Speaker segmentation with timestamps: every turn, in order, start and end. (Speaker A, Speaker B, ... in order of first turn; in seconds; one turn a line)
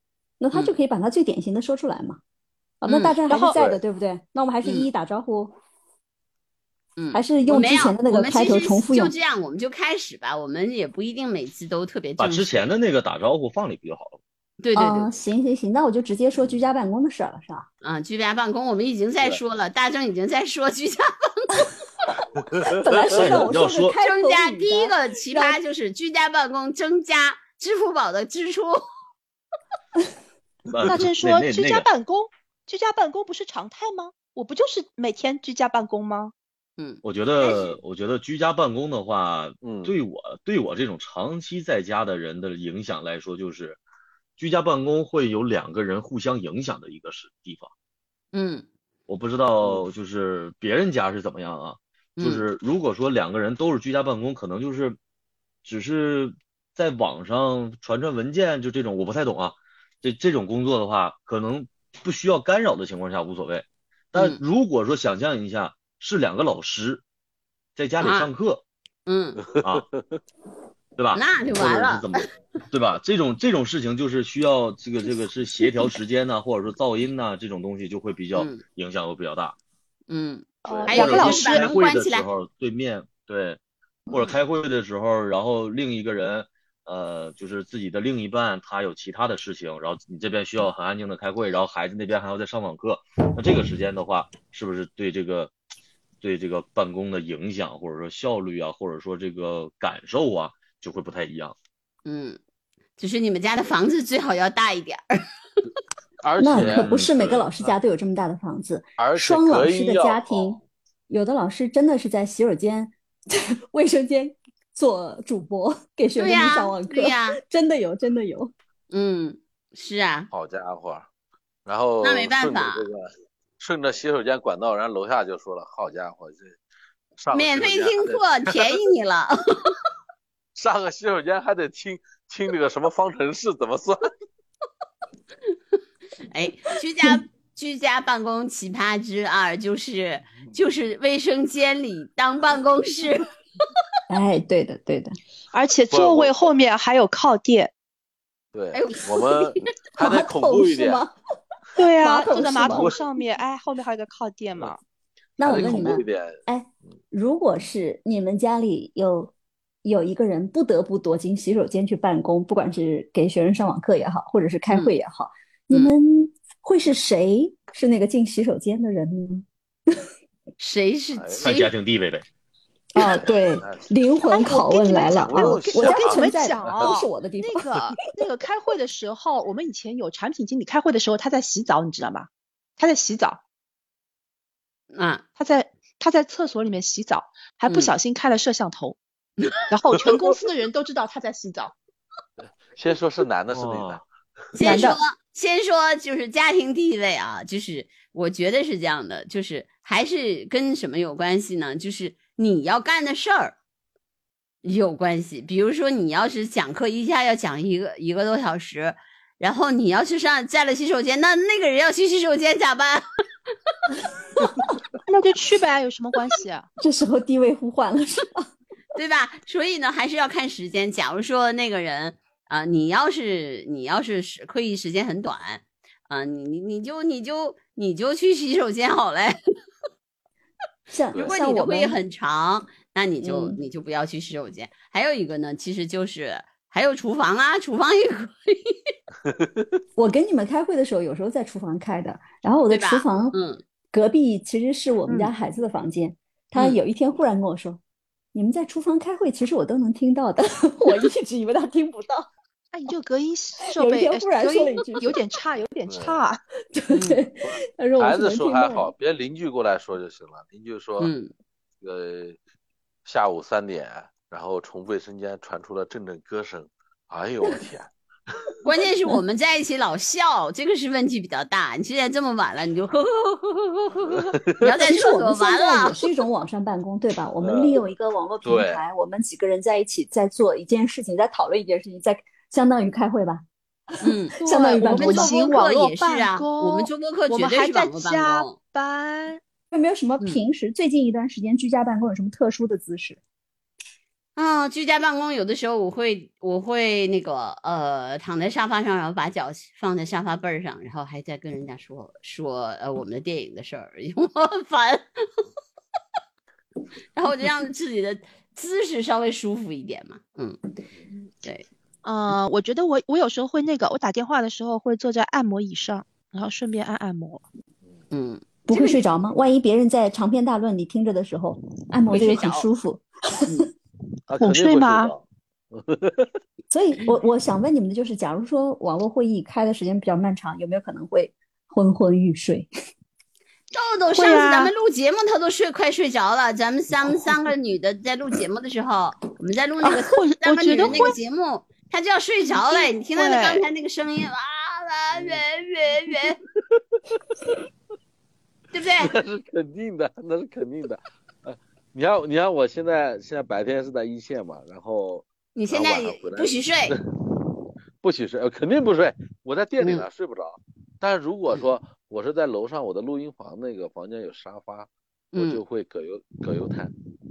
Speaker A: 0.4-2.2
Speaker A: 2.8-5.5
Speaker B: 2.9-3.2
Speaker C: 3.3-3.6
Speaker D: 3.5-3.8
Speaker B: 7.0-12.7
Speaker A: 7.1-9.1
Speaker E: 12.2-14.2
Speaker B: 14.6-15.1
Speaker A: 14.8-17.7
Speaker B: 17.8-21.7
Speaker D: 22.4-22.9
Speaker A: 22.6-25.6
Speaker E: 23.1-24.0
Speaker B: 24.0-28.8
Speaker E: 30.7-31.9
Speaker C: 30.9-36.3
Speaker E: 37.0-43.8
Speaker D: 39.6-40.0
Speaker E: 44.4-47.7
Speaker B: 48.3-48.7
Speaker E: 49.1-55.0
Speaker B: 52.2-52.5
Speaker E: 55.6-67.0
Speaker E: 67.8-68.6
Speaker B: 68.0-68.3
Speaker B: 69.1-69.4
Speaker E: 69.6-69.9
Speaker E: 71.0-79.6
Speaker B: 71.1-72.2
Speaker B: 78.3-78.6
Speaker B: 80.1-82.3
Speaker C: 80.7-81.7
Speaker E: 80.9-95.5
Speaker E: 96.2-101.5
Speaker B: 102.1-102.4
Speaker B: 103.0-105.2
Speaker D: 106.2-107.7
Speaker A: 106.4-118.5
Speaker E: 106.5-107.3
Speaker D: 109.0-110.6
Speaker B: 116.2-117.4
Speaker B: 118.9-120.3
Speaker D: 120.3-121.1
Speaker D: 121.7-123.1
Speaker B: 122.0-122.9
Speaker D: 123.6-126.6
Speaker D: 127.2-128.7
Speaker B: 127.3-129.7
Speaker D: 130.6-134.1
Speaker B: 136.3-143.3
Speaker A: 144.1-145.2
Speaker C: 145.5-147.7
Speaker D: 145.9-146.6
Speaker D: 148.5-151.0
Speaker B: 148.7-149.6
Speaker A: 150.0-151.2
Speaker C: 151.8-154.8
Speaker A: 152.0-152.9
Speaker D: 152.3-153.0
Speaker A: 155.4-159.3
Speaker D: 155.4-156.4
Speaker A: 159.8-170.0
Speaker B: 164.7-164.9
Speaker B: 170.6-171.7
Speaker D: 171.2-171.5
Speaker E: 171.4-172.2
Speaker A: 172.9-177.7
Speaker D: 173.0-173.9
Speaker C: 174.3-183.4
Speaker D: 175.0-177.0
Speaker B: 184.9-185.2
Speaker C: 185.4-189.0
Speaker B: 187.7-187.9
Speaker C: 189.7-191.7
Speaker D: 192.4-194.0
Speaker E: 193.5-194.0
Speaker B: 194.6-203.6
Speaker C: 194.6-195.0
Speaker B: 204.6-213.0
Speaker C: 215.1-216.7
Speaker A: 216.8-218.4
Speaker B: 218.9-229.4
Speaker A: 230.9-232.0
Speaker B: 231.2-238.8
Speaker A: 233.2-233.6
Speaker D: 239.3-239.7
Speaker A: 240.0-243.4
Speaker B: 242.7-243.6
Speaker A: 243.9-247.8
Speaker C: 245.1-245.3
Speaker A: 248.3-252.3
Speaker C: 252.7-256.4
Speaker A: 253.7-255.2
Speaker D: 255.9-256.2
Speaker A: 256.7-258.9
Speaker B: 256.9-257.3
Speaker D: 257.4-261.1
Speaker B: 261.0-261.3
Speaker D: 261.8-262.4
Speaker D: 263.1-267.9
Speaker B: 268.6-276.0
Speaker D: 274.1-274.4
Speaker A: 274.8-283.5
Speaker D: 277.4-277.8
Speaker D: 278.4-278.8
Speaker B: 284.0-288.6
Speaker A: 284.1-285.4
Speaker C: 284.4-289.4
Speaker A: 289.7-293.2
Speaker B: 294.4-305.1
Speaker B: 307.1-310.6
Speaker C: 312.0-317.4
Speaker B: 318.1-318.4
Speaker A: 318.7-323.6
Speaker B: 322.1-322.6
Speaker D: 324.3-325.2
Speaker C: 324.3-325.1
Speaker D: 325.7-326.3
Speaker A: 326.7-332.7
Speaker B: 333.7-346.4
Speaker C: 334.1-334.7
Speaker C: 339.8-341.2
Speaker C: 342.5-343.6
Speaker D: 345.1-345.4
Speaker D: 347.1-347.6
Speaker B: 348.7-349.1
Speaker D: 349.0-357.1
Speaker B: 355.6-357.0
Speaker D: 358.0-366.9
Speaker B: 359.8-360.1
Speaker B: 365.3-365.6